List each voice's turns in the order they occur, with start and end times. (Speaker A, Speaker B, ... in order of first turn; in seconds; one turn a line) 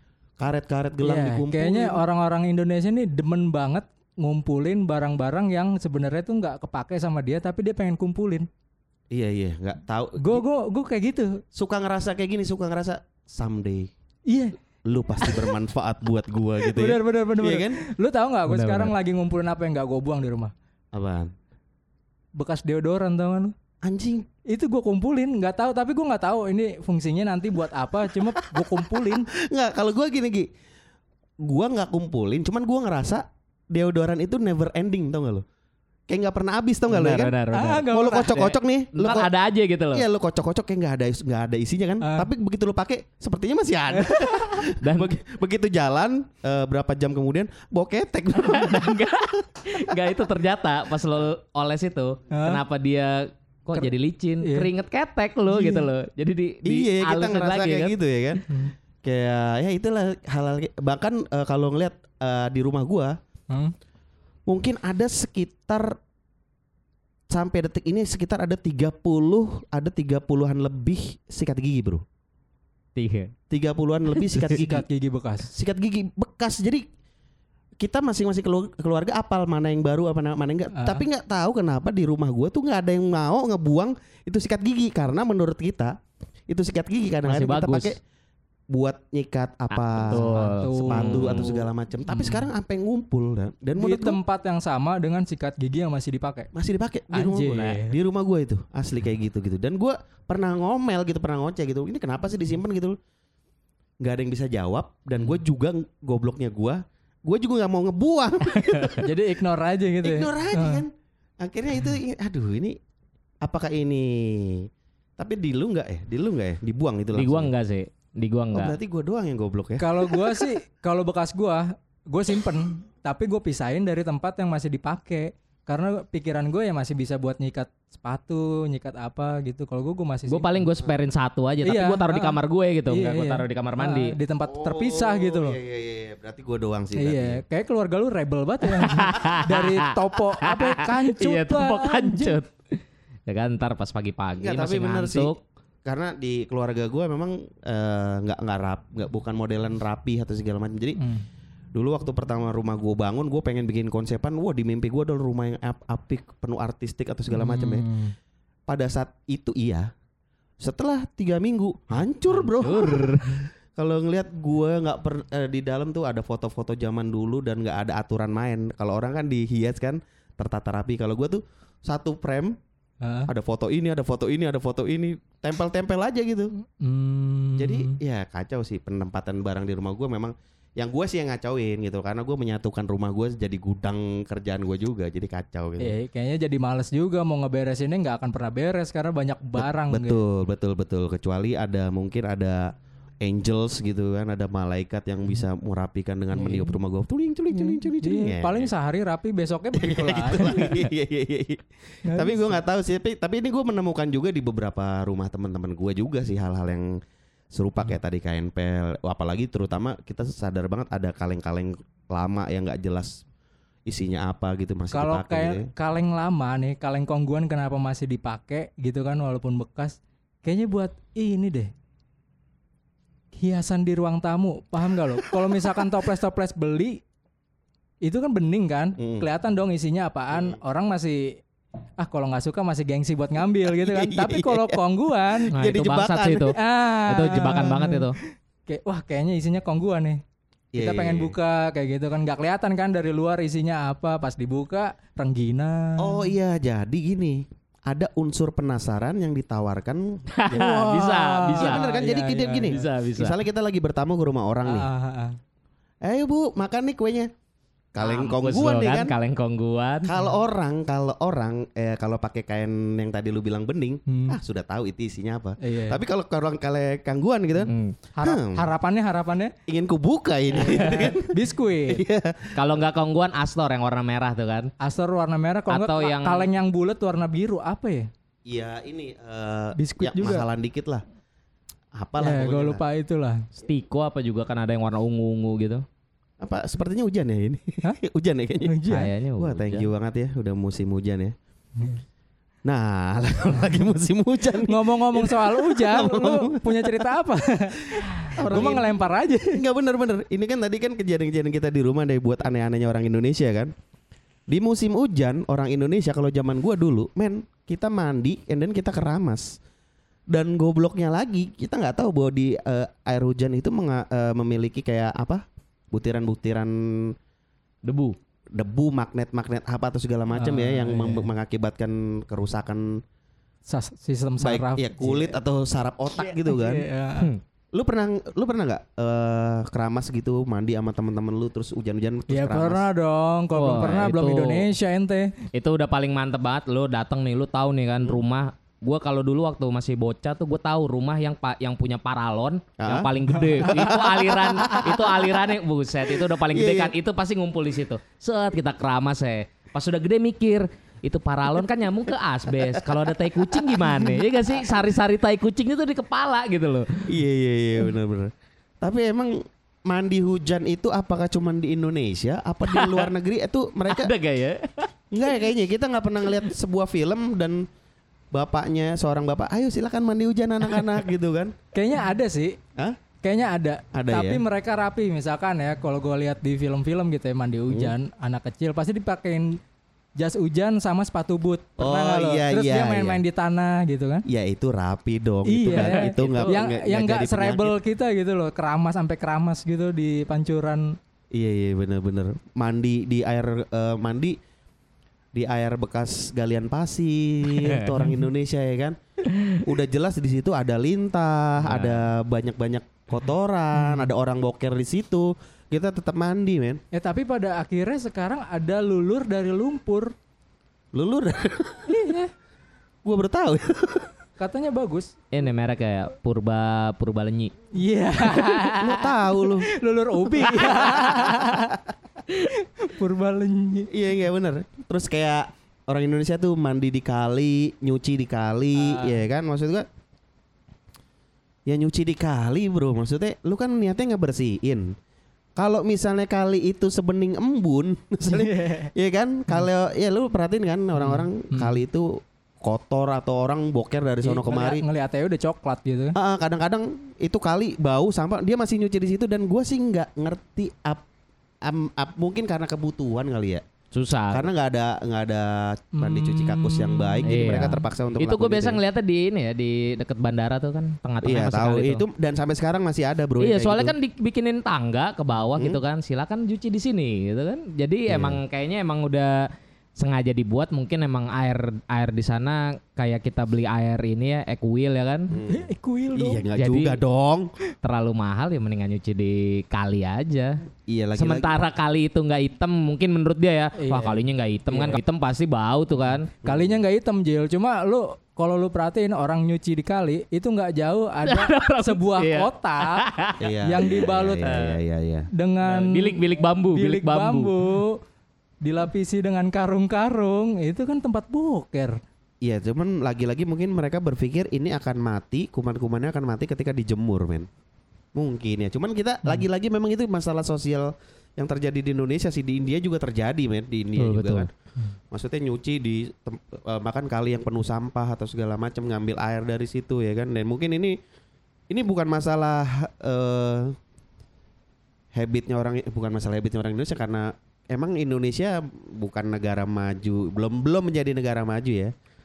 Speaker A: 0.4-2.0
Speaker B: 1.0-8.5
Speaker A: 9.1-10.4
Speaker B: 10.2-11.4
Speaker A: 11.5-13.9
Speaker B: 14.3-14.6
Speaker A: 14.9-17.8
Speaker B: 15.2-15.6
Speaker B: 16.7-20.5
Speaker C: 18.5-18.9
Speaker A: 20.9-21.3
Speaker B: 22.4-23.5
Speaker A: 23.8-24.3
Speaker B: 24.5-29.3
Speaker A: 28.2-30.5
Speaker A: 31.4-35.4
Speaker A: 36.1-37.3
Speaker C: 36.9-40.0
Speaker B: 37.5-38.4
Speaker A: 37.9-39.3
Speaker A: 39.9-49.3
Speaker B: 42.0-42.3
Speaker B: 44.0-44.4
Speaker C: 44.8-45.1
Speaker C: 48.4-58.0
Speaker A: 49.9-50.1
Speaker B: 52.3-52.6
Speaker B: 54.4-54.7
Speaker B: 55.5-55.8
Speaker A: 56.6-58.5
Speaker B: 58.5-58.7
Speaker A: 59.0-63.2
Speaker A: 64.5-66.0
Speaker A: 67.3-72.0
Speaker C: 73.0-73.3
Speaker A: 73.5-74.8
Speaker B: 74.4-75.5
Speaker A: 75.5-76.8
Speaker A: 77.8-86.0
Speaker B: 80.7-81.0
Speaker A: 86.5-88.0
Speaker C: 87.3-87.9
Speaker A: 88.7-94.2
Speaker C: 89.7-91.5
Speaker B: 90.1-92.5
Speaker B: 93.8-96.5
Speaker A: 96.5-103.0
Speaker B: 97.1-98.0
Speaker A: 104.0-109.2
Speaker B: 109.0-110.8
Speaker A: 110.0-112.8
Speaker A: 113.4-117.5
Speaker C: 117.2-118.8
Speaker A: 118.5-120.4
Speaker B: 119.8-130.5
Speaker C: 130.3-134.1
Speaker B: 131.7-135.6
Speaker A: 134.5-137.4
Speaker B: 137.0-142.4
Speaker C: 138.8-145.4
Speaker A: 144.4-151.0
Speaker B: 151.0-151.3
Speaker A: 151.7-157.9
Speaker B: 157.3-158.1
Speaker A: 158.7-159.9
Speaker A: 160.6-172.6
Speaker C: 162.4-163.4
Speaker B: 173.0-173.3
Speaker A: 173.3-176.5
Speaker B: 176.7-178.0
Speaker A: 177.6-185.9
Speaker B: 185.8-190.2
Speaker A: 189.6-198.7
Speaker B: 196.3-196.8
Speaker B: 197.5-200.8
Speaker A: 199.8-207.0
Speaker B: 202.1-202.5
Speaker A: 207.5-213.2
Speaker A: 213.9-215.7
Speaker B: 214.9-221.7
Speaker B: 223.3-227.0
Speaker A: 225.3-225.6
Speaker B: 228.0-231.4
Speaker A: 229.0-229.3
Speaker A: 230.3-230.6
Speaker B: 232.0-235.6
Speaker A: 233.7-234.8
Speaker A: 235.4-236.6
Speaker C: 235.5-238.2
Speaker B: 236.6-240.2
Speaker A: 237.3-237.8
Speaker A: 240.7-241.3
Speaker B: 240.8-246.3
Speaker A: 246.0-251.0
Speaker C: 250.3-251.8
Speaker B: 250.5-252.8
Speaker A: 251.6-254.9
Speaker C: 252.7-253.4
Speaker B: 254.7-255.4
Speaker A: 256.0-257.3
Speaker A: 257.9-259.1
Speaker C: 258.0-260.1
Speaker A: 260.1-268.6
Speaker B: 264.1-264.4
Speaker B: 265.6-266.0
Speaker C: 267.7-267.9
Speaker B: 268.2-269.5
Speaker A: 269.7-272.7
Speaker B: 270.6-272.0
Speaker C: 272.6-274.7
Speaker B: 274.8-278.1
Speaker C: 275.7-276.5
Speaker A: 278.5-281.1
Speaker B: 279.8-280.4
Speaker A: 282.0-282.8
Speaker B: 282.2-283.4
Speaker C: 283.6-285.8
Speaker A: 286.4-288.8
Speaker B: 288.6-289.1
Speaker C: 288.9-289.9
Speaker A: 289.4-291.3
Speaker A: 292.7-297.1
Speaker B: 294.6-299.6
Speaker A: 297.9-299.0
Speaker C: 298.5-298.8
Speaker A: 299.5-303.7
Speaker A: 304.5-309.6
Speaker A: 310.3-317.1
Speaker C: 317.9-318.2
Speaker A: 318.5-323.0
Speaker B: 320.3-321.3
Speaker B: 323.7-325.4
Speaker A: 324.4-326.9
Speaker B: 326.2-327.3
Speaker A: 327.7-332.9
Speaker B: 332.3-335.4
Speaker C: 333.6-334.7
Speaker C: 335.5-357.1
Speaker A: 342.8-345.4
Speaker B: 343.3-343.7
Speaker A: 346.4-346.9
Speaker A: 352.7-354.7
Speaker A: 357.1-364.1
Speaker C: 362.7-363.1
Speaker C: 363.9-364.9
Speaker A: 365.1-367.7
Speaker A: 368.3-371.6
Speaker B: 371.7-372.6
Speaker B: 373.2-379.6
Speaker A: 373.9-374.4
Speaker A: 377.7-378.0
Speaker B: 380.2-384.2
Speaker A: 381.8-383.2
Speaker A: 384.3-387.8
Speaker B: 385.5-391.0
Speaker C: 385.7-386.6
Speaker A: 391.3-394.4
Speaker A: 395.3-399.0
Speaker C: 399.3-399.6
Speaker A: 399.6-406.8
Speaker C: 401.6-402.0
Speaker B: 403.8-404.1
Speaker B: 406.9-410.1
Speaker A: 410.9-412.1
Speaker B: 411.9-412.3
Speaker A: 413.0-414.1
Speaker B: 414.4-415.1
Speaker C: 415.3-417.5
Speaker B: 417.8-423.9
Speaker A: 418.7-419.7
Speaker A: 420.4-421.6
Speaker A: 423.9-429.9
Speaker B: 428.8-429.2
Speaker A: 431.7-434.9
Speaker A: 435.6-444.8
Speaker B: 438.3-438.9
Speaker B: 441.0-441.8
Speaker B: 444.2-446.1
Speaker A: 446.1-451.1
Speaker A: 451.6-453.6
Speaker C: 453.9-454.5
Speaker A: 454.3-458.8
Speaker B: 455.9-457.8
Speaker C: 457.2-462.0
Speaker A: 461.2-463.9
Speaker C: 463.4-475.4
Speaker A: 468.1-468.4
Speaker A: 475.3-477.5
Speaker B: 475.5-476.4
Speaker C: 476.5-477.0
Speaker C: 477.8-480.6
Speaker A: 480.9-481.6
Speaker C: 481.2-486.3
Speaker B: 483.8-485.0
Speaker B: 486.3-493.1
Speaker A: 486.4-486.8
Speaker C: 491.2-493.4
Speaker A: 493.4-495.3
Speaker B: 493.6-494.6
Speaker C: 494.4-494.8
Speaker B: 495.4-498.0
Speaker C: 495.6-497.5
Speaker B: 498.6-502.0
Speaker A: 502.4-507.5
Speaker A: 508.1-514.5
Speaker C: 514.0-514.5
Speaker A: 515.1-521.0
Speaker A: 521.7-523.8
Speaker A: 525.1-531.9